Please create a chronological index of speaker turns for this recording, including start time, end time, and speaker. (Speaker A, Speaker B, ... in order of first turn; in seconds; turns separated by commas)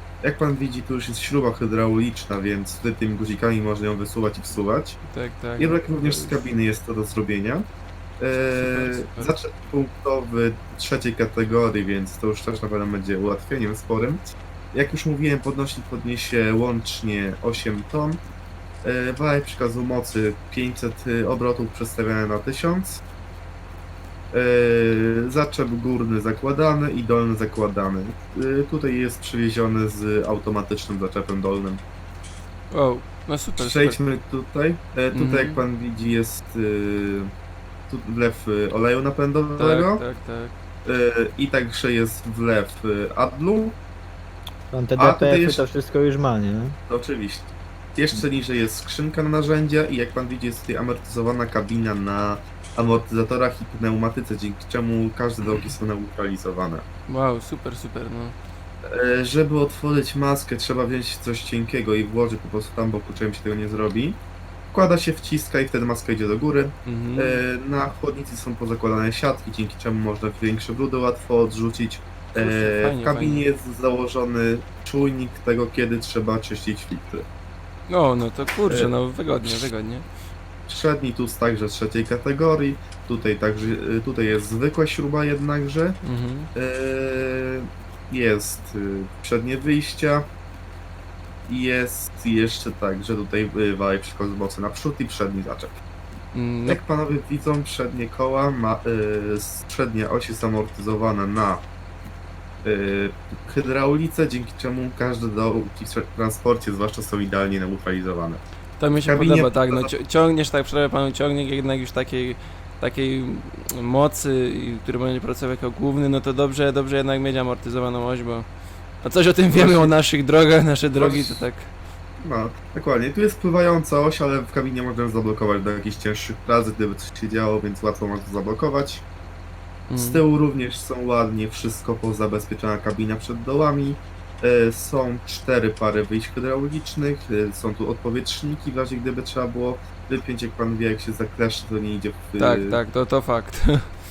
Speaker A: 0.2-5.0, Speaker B: 5.0-6.4, Speaker A: 5.6-7.7, Speaker A: 8.2-18.2, Speaker B: 8.6-9.3, Speaker A: 18.8-23.0, Speaker A: 24.3-31.8, Speaker B: 32.7-34.0, Speaker A: 33.6-37.3, Speaker B: 35.1-35.6, Speaker A: 37.9-40.0, Speaker B: 39.5-40.5, Speaker A: 40.8-43.8, Speaker C: 44.7-46.8, Speaker A: 45.0-45.6, Speaker A: 46.9-56.8, Speaker B: 57.1-58.4, Speaker A: 58.9-64.2, Speaker A: 64.7-77.2, Speaker B: 66.8-67.4, Speaker B: 72.3-73.4, Speaker B: 77.9-80.0, Speaker A: 80.7-86.0, Speaker B: 86.0-86.5, Speaker A: 86.5-90.2, Speaker A: 91.5-95.8, Speaker B: 96.3-96.8, Speaker A: 96.7-101.6, Speaker A: 102.6-108.4, Speaker B: 108.8-118.5, Speaker A: 109.0-109.9, Speaker B: 119.0-121.7, Speaker A: 119.5-119.9, Speaker A: 121.0-121.5, Speaker A: 122.2-129.1, Speaker B: 129.9-130.2, Speaker A: 129.9-142.8, Speaker B: 142.4-143.8